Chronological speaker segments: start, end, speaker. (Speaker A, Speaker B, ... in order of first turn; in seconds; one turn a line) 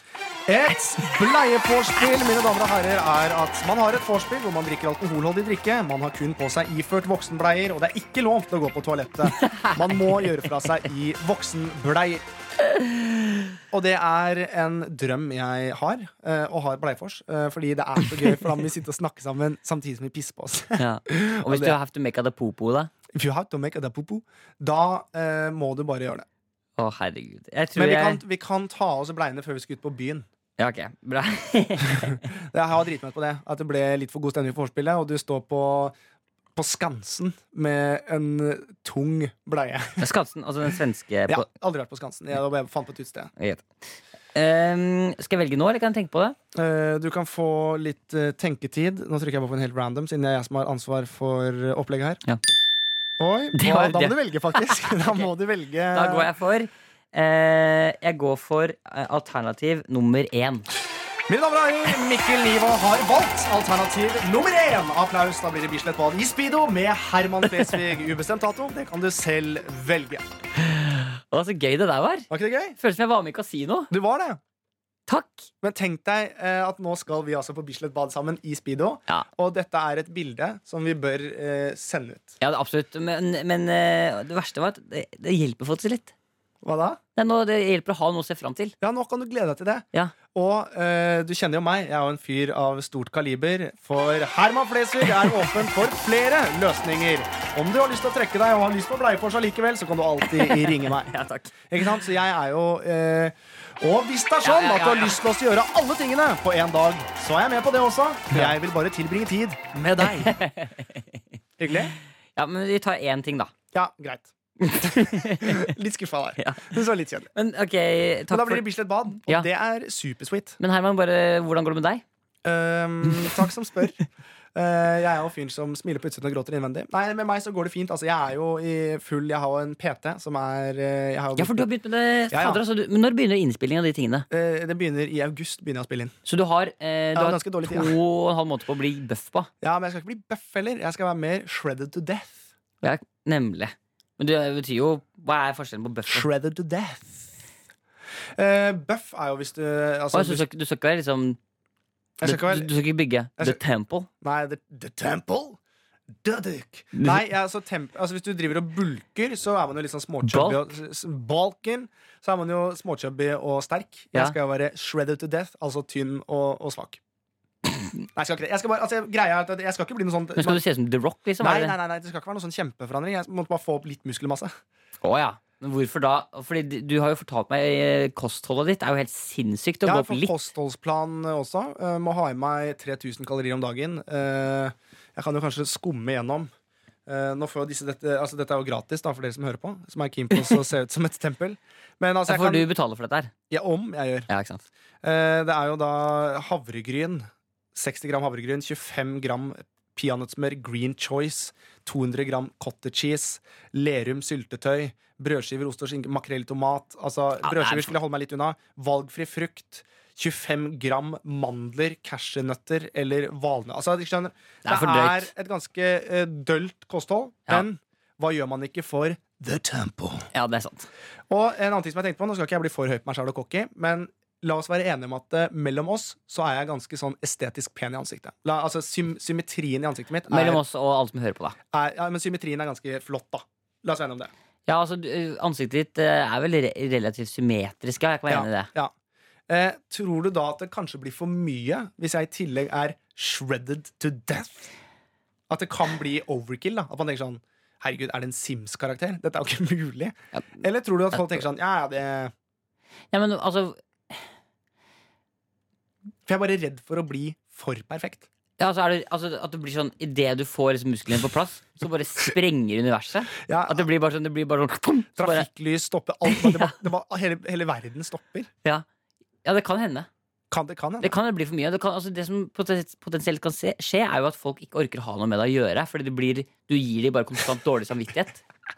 Speaker A: 0.5-12.2
Speaker B: 9.4-9.8
Speaker A: 13.7-21.8
Speaker B: 20.8-22.9
Speaker A: 23.1-26.3
Speaker B: 26.8-28.2
Speaker A: 27.8-30.2
Speaker B: 30.6-32.3
Speaker A: 32.0-36.0
Speaker A: 36.5-40.1
Speaker B: 40.0-41.5
Speaker A: 41.3-43.3
Speaker B: 43.4-43.7
Speaker B: 44.3-46.4
Speaker A: 46.5-52.2
Speaker A: 53.2-56.3
Speaker B: 53.5-55.2
Speaker B: 55.9-60.7
Speaker A: 61.3-70.3
Speaker B: 70.6-73.9
Speaker A: 72.3-72.8
Speaker A: 73.9-74.4
Speaker B: 75.1-75.5
Speaker A: 75.6-82.4
Speaker B: 82.4-86.1
Speaker A: 86.6-87.0
Speaker B: 87.2-88.7
Speaker A: 88.8-101.1
Speaker B: 100.4-101.5
Speaker A: 101.7-110.4
Speaker B: 104.4-105.2
Speaker B: 110.0-111.2
Speaker A: 111.6-111.9
Speaker B: 112.4-113.5
Speaker A: 113.7-114.3
Speaker B: 114.6-115.7
Speaker A: 115.0-117.3
Speaker B: 116.4-116.8
Speaker B: 117.3-118.7
Speaker A: 118.3-120.6
Speaker B: 119.2-119.5
Speaker B: 120.6-122.0
Speaker A: 122.4-124.0
Speaker B: 123.1-123.3
Speaker A: 124.5-131.7
Speaker B: 131.4-134.3
Speaker A: 132.3-132.6
Speaker A: 134.3-136.1
Speaker B: 136.2-139.5
Speaker A: 137.2-137.9
Speaker A: 139.6-142.4
Speaker B: 142.8-146.3
Speaker A: 146.1-147.3
Speaker A: 148.4-150.4
Speaker B: 150.1-151.4
Speaker A: 152.2-152.7
Speaker B: 152.2-154.1
Speaker A: 154.2-155.6
Speaker A: 156.2-167.0
Speaker B: 156.9-157.2
Speaker B: 160.2-160.6
Speaker A: 168.2-170.6
Speaker B: 170.4-171.8
Speaker A: 171.4-174.5
Speaker B: 175.0-180.3
Speaker A: 179.8-186.5
Speaker A: 187.1-192.7
Speaker B: 192.3-193.3
Speaker A: 193.5-194.3
Speaker B: 194.3-194.6
Speaker A: 195.0-220.3
Speaker B: 207.4-207.9
Speaker B: 214.7-215.3
Speaker B: 220.3-220.9
Speaker A: 221.3-230.6
Speaker B: 230.3-231.6
Speaker A: 231.7-234.3
Speaker B: 234.7-238.7
Speaker A: 238.3-238.9
Speaker A: 239.5-244.7
Speaker A: 245.5-252.3
Speaker B: 250.3-250.6
Speaker B: 251.1-251.4
Speaker B: 253.1-254.2
Speaker A: 256.3-258.3
Speaker B: 258.6-265.5
Speaker A: 263.4-263.9
Speaker A: 265.1-268.5
Speaker B: 266.3-266.8
Speaker B: 269.4-270.1
Speaker A: 270.5-271.1
Speaker B: 271.0-278.4